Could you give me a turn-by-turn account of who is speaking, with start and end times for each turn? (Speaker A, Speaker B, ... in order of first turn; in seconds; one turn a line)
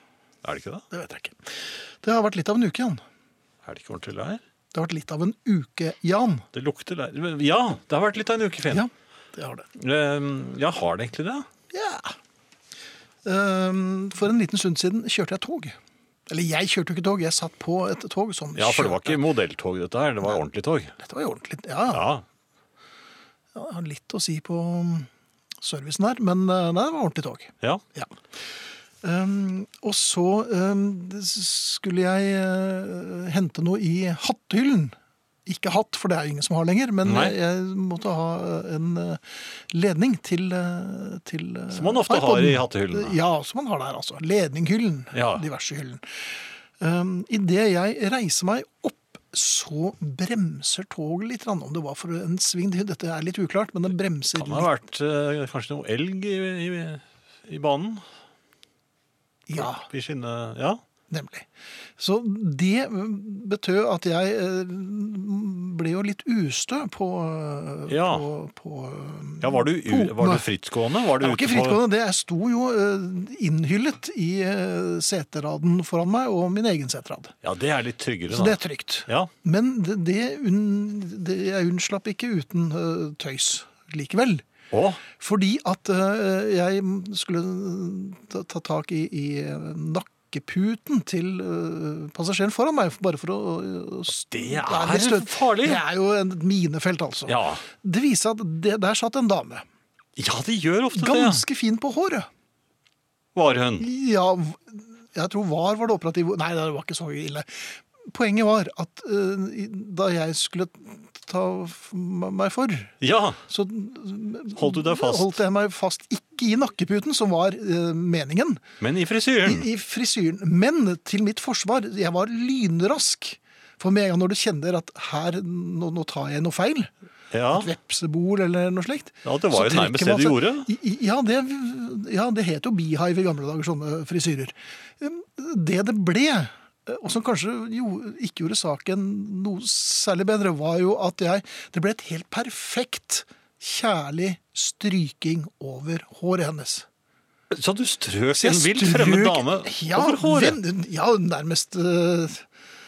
Speaker A: 0.4-0.8
Speaker B: 0.9-3.0
Speaker A: 3.7-4.4
Speaker B: 4.7-6.5
Speaker A: 6.5-8.8
Speaker B: 8.7-9.7
Speaker A: 9.8-11.5
Speaker B: 11.7-12.2
Speaker B: 13.2-15.8
Speaker B: 16.3-19.2
Speaker A: 18.6-20.9
Speaker B: 21.0-22.1
Speaker A: 21.9-22.2
Speaker B: 23.5-25.1
Speaker B: 25.6-28.2
Speaker B: 29.0-46.0
Speaker A: 37.0-37.4
Speaker A: 41.7-43.2
Speaker A: 45.1-45.5
Speaker B: 46.8-54.7
Speaker A: 54.3-58.0
Speaker B: 59.5-59.9
Speaker A: 59.5-60.8
Speaker B: 61.1-70.5
Speaker A: 67.9-68.3
Speaker A: 69.4-71.8
Speaker B: 71.2-77.3
Speaker A: 77.4-79.3
Speaker B: 78.3-84.5
Speaker A: 84.7-85.0
Speaker B: 85.2-99.7
Speaker A: 94.3-95.8
Speaker A: 97.3-97.6
Speaker A: 100.2-101.4
Speaker B: 100.9-102.3
Speaker A: 103.3-103.9
Speaker B: 103.8-113.0
Speaker A: 113.0-113.4
Speaker B: 113.5-118.6
Speaker A: 114.5-115.4
Speaker A: 118.8-119.7
Speaker B: 119.4-126.9
Speaker A: 127.3-127.7
Speaker B: 127.5-146.9
Speaker A: 129.2-130.7
Speaker A: 147.5-150.6
Speaker B: 148.3-152.5